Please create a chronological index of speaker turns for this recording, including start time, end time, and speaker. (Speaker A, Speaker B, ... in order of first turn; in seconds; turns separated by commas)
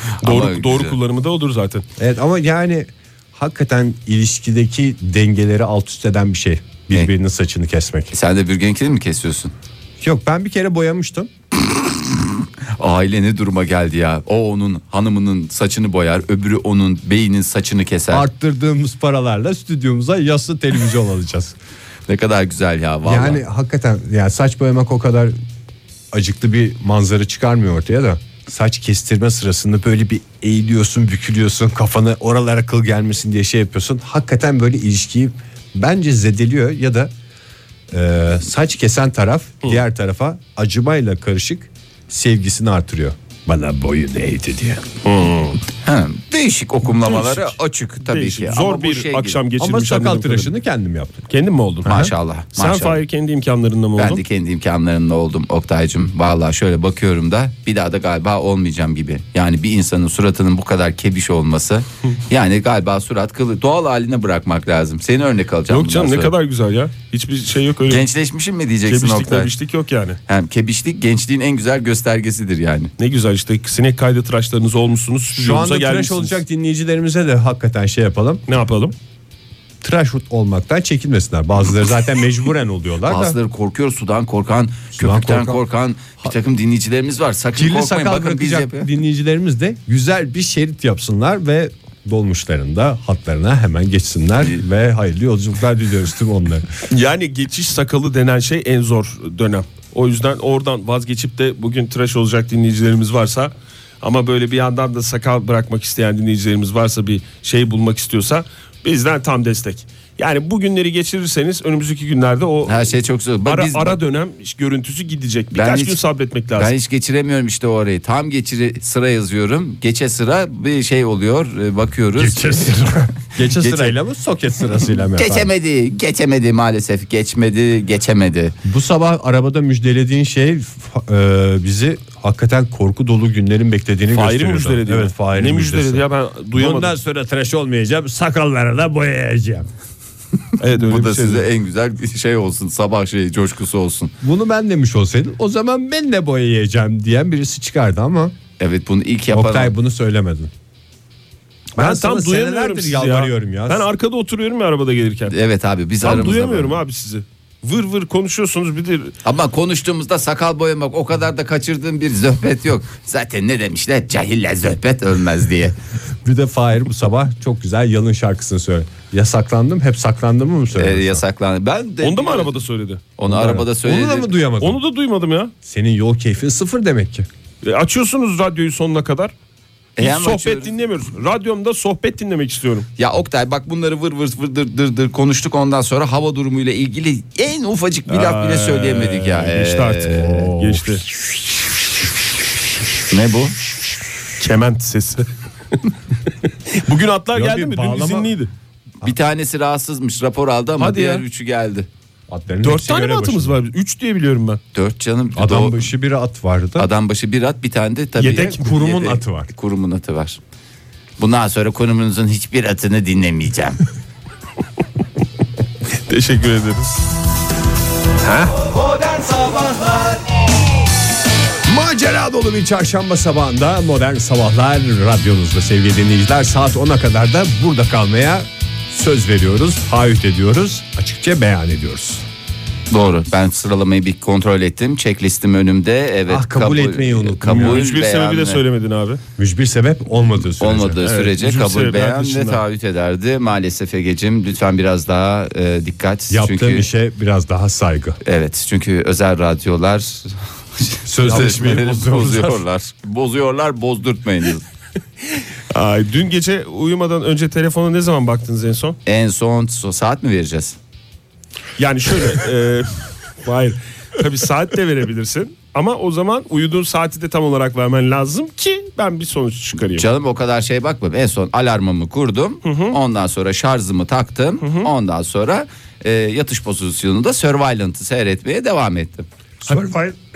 Speaker A: 0.2-0.9, Speaker B: 0.2-1.8, Speaker C: 2.0-8.1, Speaker A: 8.1-9.5, Speaker C: 10.0-11.3, Speaker A: 12.8-18.2, Speaker C: 18.1-21.5, Speaker A: 22.1-23.4, Speaker C: 23.0-25.3, Speaker C: 26.1-37.1, Speaker C: 37.9-44.9, Speaker B: 45.0-45.6, Speaker A: 45.8-49.4, Speaker B: 46.9-50.5, Speaker C: 49.6-51.3, Speaker B: 51.3-54.2, Speaker A: 51.8-53.0, Speaker C: 51.9-52.1, Speaker A: 54.0-66.3, Speaker B: 65.7-68.1, Speaker A: 67.9-69.5, Speaker B: 68.9-70.2, Speaker A: 70.3-72.9, Speaker B: 73.0-76.4, Speaker C: 75.3-78.4, Speaker B: 78.5-78.9, Speaker C: 79.8-83.4, Speaker A: 83.0-88.9, Speaker C: 85.0-85.6, Speaker C: 87.5-96.7, Speaker B: 96.9-112.9, Speaker A: 112.7-114.0, Speaker B: 113.4-116.7, Speaker A: 115.5-116.0, Speaker A: 116.5-122.7, Speaker C: 122.2-125.5, Speaker A: 123.6-124.0, Speaker A: 125.2-128.6, Speaker C: 128.6-139.7, Speaker B: 134.1-136.9, Speaker B: 140.6-141.4, Speaker A: 140.7-144.1, Speaker C: 144.2-148.3, Speaker A: 148.6-149.7, Speaker C: 149.3-150.5, Speaker C: 151.8-153.8, Speaker B: 151.8-155.3, Speaker A: 155.3-156.8, Speaker B: 156.0-159.1, Speaker A: 159.2-165.8, Speaker C: 166.2-171.2, Speaker A: 170.7-172.5, Speaker B: 172.0-173.0, Speaker A: 173.2-174.3, Speaker C: 173.3-174.8, Speaker B: 174.6-175.5, Speaker C: 175.6-177.3, Speaker B: 177.6-179.3, Speaker A: 180.0-180.7, Speaker B: 180.0-182.9, Speaker A: 183.0-190.5, Speaker B: 188.1-191.0, Speaker C: 190.1-191.0, Speaker A: 193.1-193.5, Speaker B: 194.4-195.3, Speaker B: 196.7-198.5, Speaker C: 197.3-198.3, Speaker A: 199.0-201.9, Speaker B: 200.8-201.2, Speaker C: 202.3-203.6, Speaker B: 202.6-204.6, Speaker A: 204.7-205.9, Speaker C: 205.3-206.9, Speaker A: 206.8-210.4, Speaker B: 208.2-208.7, Speaker C: 208.2-209.5, Speaker A: 211.2-213.8, Speaker B: 216.1-216.9, Speaker B: 218.2-218.6, Speaker A: 219.0-219.9, Speaker C: 221.6-232.2, Speaker A: 232.9-238.6, Speaker C: 236.3-237.8, Speaker B: 237.5-239.2, Speaker C: 239.4-241.0, Speaker A: 240.6-246.9, Speaker B: 241.0-242.6, Speaker C: 246.3-248.2, Speaker A: 248.2-254.6, Speaker C: 251.1-252.6, Speaker B: 255.7-259.0, Speaker A: 259.1-260.8, Speaker B: 261.8-270.1, Speaker A: 269.9-279.2, Speaker B: 272.6-273.0, Speaker B: 274.6-274.9, Speaker C: 279.6-280.1